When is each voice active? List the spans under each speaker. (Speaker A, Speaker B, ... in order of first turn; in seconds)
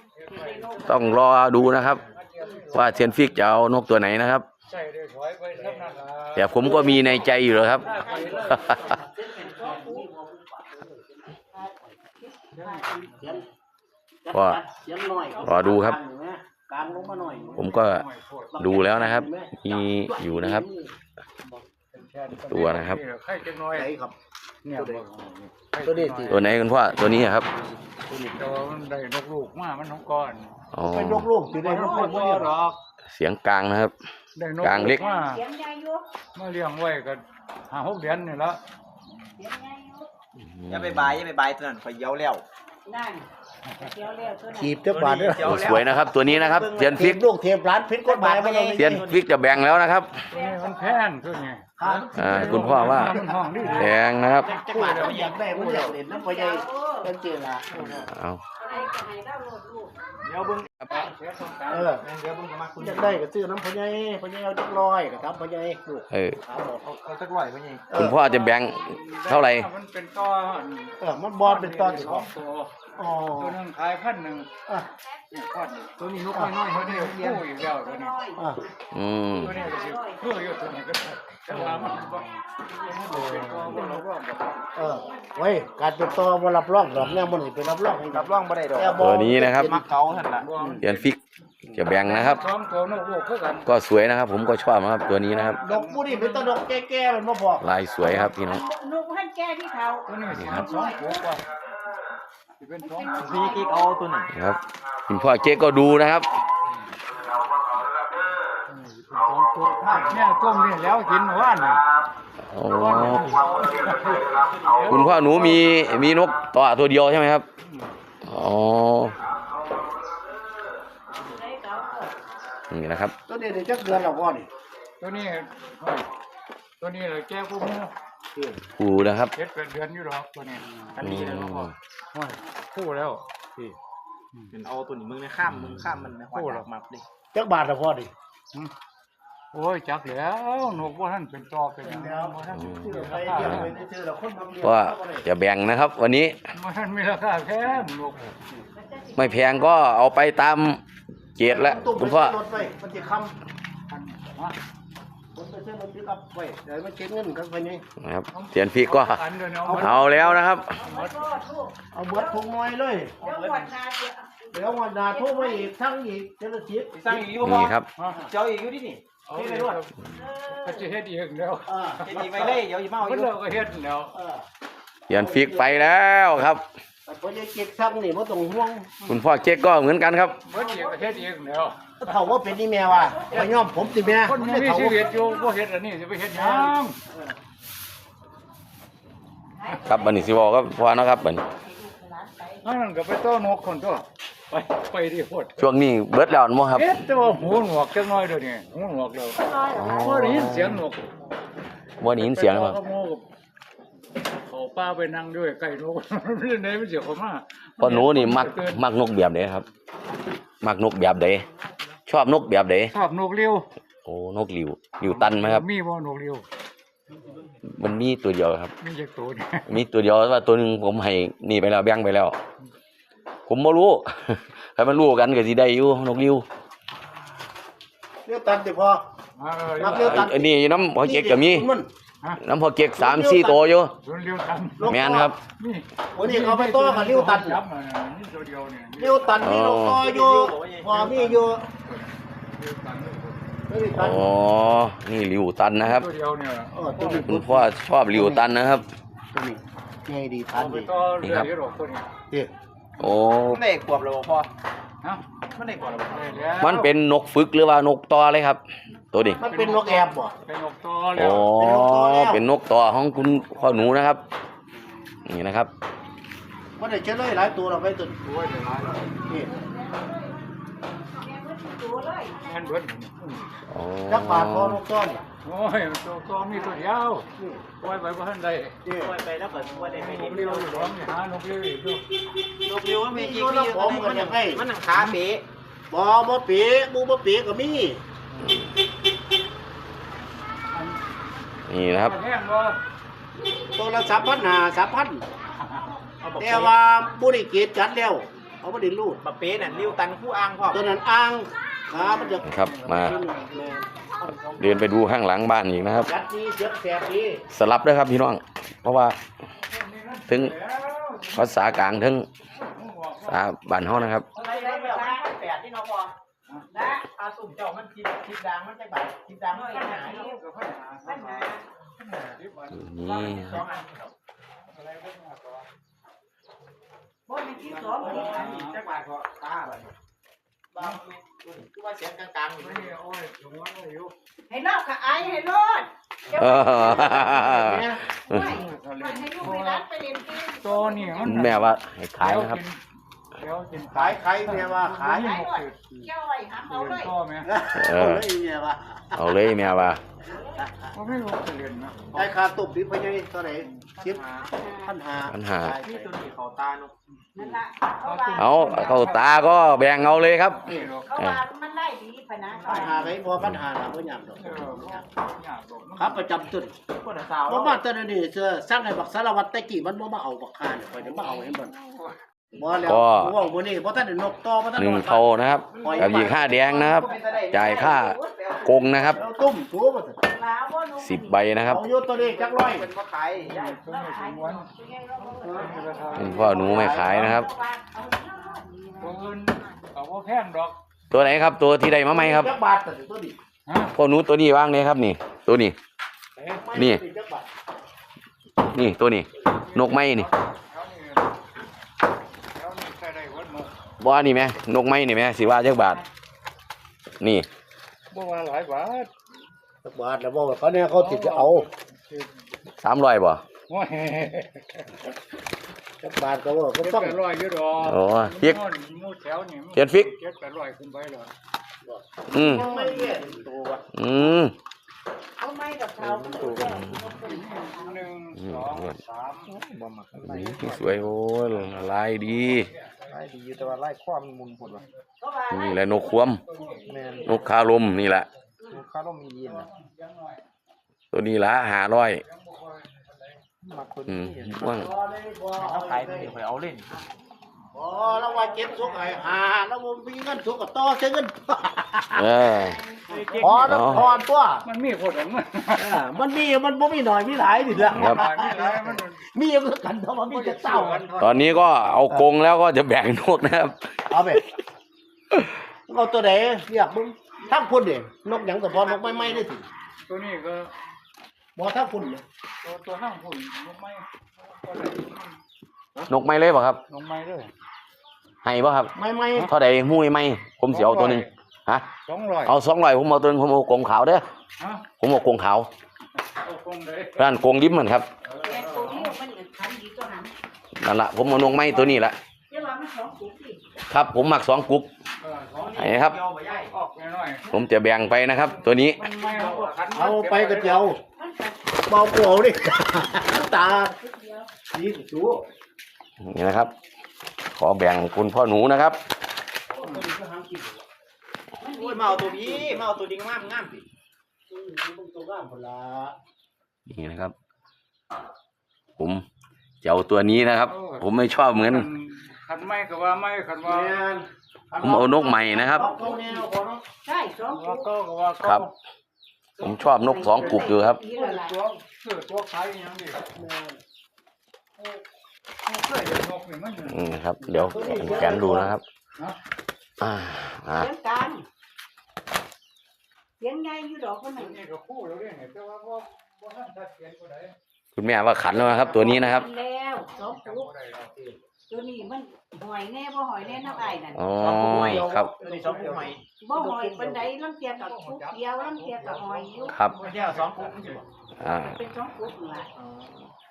Speaker A: 0.2-1.1, 1.8-3.2, 4.6-6.9, 7.7-8.7, 12.5-13.1, 16.9-18.6, 21.4-23.9, 24.6-26.5, 28.4-30.5, 31.5-32.8, 34.3-35.4, 36.3-38.6, 50.3-55.5, 57.7-58.0, 60.9-62.0, 68.4-72.7, 73.3-74.5, 75.3-78.2, 79.4-84.7, 90.4-91.0, 92.0-93.7, 95.3-96.6, 98.0-98.3, 100.0-101.4, 102.6-103.3, 108.7-111.8, 112.7-115.6, 117.6-117.9, 125.0-126.1, 126.8-127.9, 129.3-131.1, 132.1-133.2, 136.3-136.7, 139.5-143.7, 146.5-148.3, 153.9-154.6, 158.3-160.3, 160.8-161.2, 168.0-168.2, 169.3-170.0, 170.5-174.1, 180.4-181.9, 184.0-187.0, 192.6-195.7, 196.7-199.4, 199.9-201.0, 202.1-203.2, 204.5-208.8, 212.9-213.7, 215.0-216.4, 218.8-219.8, 229.3-230.3, 234.0-235.0, 235.6-239.4, 241.6-243.4, 245.8-247.3, 250.5-252.1, 256.1-256.9, 259.4-261.5, 263.4-263.8, 268.2-269.1, 272.4-273.4, 275.4-277.3, 277.8-278.8, 279.5-282.0, 288.3-288.6, 290.7-291.0, 291.9-292.8, 295.6-295.9, 299.6-300.0, 301.9-303.6, 309.6-311.7, 312.6-313.5, 319.8-323.2, 324.6-325.7, 328.0-329.1, 332.6-334.1, 338.3-339.9, 340.6-342.8, 343.4-345.8, 346.7-347.5, 350.9-352.1, 353.6-353.9, 358.0-359.8, 360.6-361.1, 364.4-366.3, 383.4-384.7, 385.4-387.4, 389.0-390.8, 393.6-393.9, 396.4-396.6, 399.4-401.3, 402.5-403.7, 408.1-409.1, 411.0-412.4, 413.7-414.9, 416.8-421.3, 427.2-429.5, 432.2-433.2, 434.6-435.0, 436.4-437.2, 439.4-440.4, 442.2-443.4, 453.1-453.9, 454.6-456.0, 457.8-459.2, 460.3-461.6, 470.1-470.7, 472.6-475.4, 476.9-477.5, 480.7-481.3, 482.0-482.5, 484.6-484.9, 486.4-487.4, 488.2-489.1, 495.2-496.0, 496.5-497.5, 498.7-500.9, 509.8-510.1, 520.7-524.0, 527.5-528.7, 530.3-533.2, 534.8-535.0, 535.6-537.2, 544.4-547.5, 550.1-551.1, 553.4-554.1, 557.6-561.0
Speaker B: 0.3-1.2, 2.4-2.6, 7.9-10.1, 11.5-13.3, 15.3-15.7, 31.6-32.4, 34.8-36.0, 39.4-40.1, 42.9-44.8, 50.3-51.1, 55.6-57.1, 58.6-59.9, 77.5-78.5, 79.4-80.2, 84.8-85.7, 98.0-101.3, 102.8-103.9, 121.3-122.1, 148.7-149.8, 160.8-162.4, 163.2-165.7, 170.1-170.9, 180.5-181.3, 182.9-183.6, 184.6-185.6, 189.6-192.7, 199.3-200.2, 255.6-256.6, 269.2-272.7, 293.8-294.4, 314.3-315.3, 316.7-317.1, 319.5-320.4, 321.0-321.6, 327.3-328.6, 334.5-337.4, 338.3-341.5, 345.0-347.1, 354.1-354.9, 357.3-359.1, 361.0-363.1, 376.7-378.3, 380.2-381.6, 383.8-389.4, 425.4-428.1, 435.2-437.5, 447.9-449.2, 488.4-490.3, 492.5-493.6, 501.1-501.7, 503.3-504.5, 511.6-512.8, 525.4-526.4, 527.0-527.9, 529.6-531.5, 540.7-541.4, 543.4-544.6, 548.9-550.7, 551.7-554.6, 556.4-559.8, 561.4-562.7
Speaker C: 0.8-2.0, 2.7-4.5, 6.3-7.9, 14.3-14.6, 15.4-16.0, 17.6-18.0, 18.6-20.6, 22.5-23.0, 26.3-27.5, 30.7-31.3, 33.1-33.9, 34.6-35.0, 40.4-41.2, 45.4-47.2, 48.7-50.2, 52.1-53.1, 53.7-54.5, 58.0-58.4, 66.1-66.4, 67.9-69.7, 78.9-79.6, 88.9-89.8, 90.8-91.2, 91.7-92.4, 93.6-95.6, 97.6-98.6, 100.4-100.7, 104.3-106.3, 112.5-113.7, 114.8-117.5, 118.2-119.2, 122.7-123.1, 128.8-129.3, 131.0-131.7, 135.5-135.9, 142.5-143.7, 144.6-146.4, 149.2-150.8, 151.3-152.3, 158.0-160.8, 167.3-167.9, 175.1-176.6, 179.1-180.4, 189.8-191.4, 195.6-196.9, 199.7-200.8, 202.0-202.8, 207.8-209.6, 210.6-211.4, 212.1-212.9, 214.0-215.6, 217.7-218.7, 219.7-222.3, 223.5-226.4, 229.8-231.7, 232.4-233.9, 234.9-235.4, 239.4-240.0, 243.9-246.1, 247.2-248.9, 251.2-251.5, 253.0-253.6, 256.6-259.4, 261.1-264.2, 265.2-265.7, 273.7-274.8, 291.7-292.1, 302.4-303.2, 304.6-306.1, 307.5-309.2, 310.3-310.5, 311.3-312.3, 313.3-314.3, 322.7-323.6, 336.3-338.6, 341.2-342.6, 347.7-348.2, 349.1-350.0, 355.3-355.8, 358.4-361.4, 372.8-373.3, 374.8-379.2, 381.0-381.8, 386.2-387.5, 391.1-392.5, 393.9-395.8, 396.7-397.0, 398.7-400.3, 404.0-406.0, 407.2-407.5, 412.8-413.4, 417.8-418.6, 419.7-420.1, 422.3-422.7, 423.9-424.5, 426.7-427.0, 428.4-428.9, 430.2-432.7, 435.5-436.4, 437.2-438.3, 441.1-442.2, 444.1-444.9, 452.1-452.8, 453.6-454.0, 457.9-458.2, 461.2-464.4, 476.1-476.8, 478.4-481.9, 482.4-484.2, 485.0-485.7, 487.2-488.1, 490.8-492.2, 493.9-494.9, 495.8-496.2, 497.5-499.0, 506.2-506.7, 507.5-509.0, 516.9-517.3, 519.0-519.2, 519.8-521.9, 524.8-525.9, 529.6-531.0, 536.9-538.8, 540.0-540.9, 547.9-549.5, 554.1-555.3, 561.4-561.8
Speaker D: 5.6-5.9, 6.6-11.3, 13.2-13.4, 14.2-17.7, 18.5-20.9, 23.7-24.1, 24.7-25.0, 25.8-26.4, 27.9-28.4, 30.9-32.5, 44.5-45.8, 46.9-49.0, 51.8-54.0, 54.5-57.7, 61.7-62.0, 62.8-66.8, 67.9-68.2, 71.0-72.3, 73.0-73.6, 81.5-81.9, 83.1-83.8, 84.8-89.8, 95.6-97.7, 109.6-110.2, 123.3-124.5, 128.3-128.6, 137.3-138.1, 141.8-145.2, 151.4-153.3, 155.3-157.8, 159.6-160.4, 161.9-163.2, 164.5-167.2, 171.7-172.0, 174.1-174.4, 175.1-175.9, 177.1-178.9, 182.0-185.1, 186.3-187.3, 228.2-229.0, 229.7-231.9, 233.0-233.8, 234.8-235.3, 236.1-237.6, 239.0-241.6, 243.7-244.3, 246.7-248.5, 249.3-250.9, 259.4-260.3, 261.5-262.4, 266.8-268.1, 274.1-275.2, 277.4-277.6, 278.8-279.2, 283.0-284.6, 285.9-288.0, 293.8-295.2, 296.4-299.2, 300.7-304.9, 306.0-307.4, 336.9-338.0, 343.9-346.1, 347.4-349.6, 350.6-350.9, 352.1-354.2, 354.8-356.1, 362.6-365.0, 366.0-366.8, 367.5-371.7, 372.5-376.6, 379.1-380.2, 381.6-382.9, 386.3-387.3, 392.1-393.4, 396.5-397.5, 409.8-411.7, 416.0-417.2, 421.8-423.5, 444.6-446.3, 447.7-452.3, 453.4-454.6, 455.7-461.1, 464.1-464.4, 465.9-469.6, 471.6-472.2, 478.9-479.5, 499.9-501.0, 501.9-503.9, 504.7-505.4, 509.7-510.8, 514.5-516.1, 523.6-526.8, 533.3-533.8, 537.4-538.8, 548.9-549.2, 554.6-557.3
Speaker E: 40.7-42.4, 44.9-47.1, 48.0-49.2, 54.4-55.9, 57.7-58.0, 60.2-60.7, 62.0-63.2, 66.8-67.9, 76.0-77.4, 83.7-84.0, 88.1-90.5, 103.1-104.3, 130.9-131.7, 134.5-137.0, 163.2-163.7, 166.9-169.8, 172.0-173.3, 239.9-241.4, 253.5-254.5, 255.6-256.3, 278.9-280.9, 282.6-285.4, 296.2-296.7, 299.2-300.8, 314.3-316.1, 317.0-320.2, 323.0-324.1, 327.6-329.9, 330.7-332.9, 354.0-354.4, 355.8-356.9, 362.5-363.1, 367.0-367.8, 375.7-379.2, 382.1-383.8, 422.4-423.8, 426.0-426.8, 429.5-431.1, 433.1-434.8, 436.9-437.3, 438.7-439.7, 443.6-444.9, 445.6-446.9, 453.1-454.2, 495.6-496.7, 499.2-499.7, 511.7-513.8, 554.4-556.2, 560.0-561.0, 562.7-563.3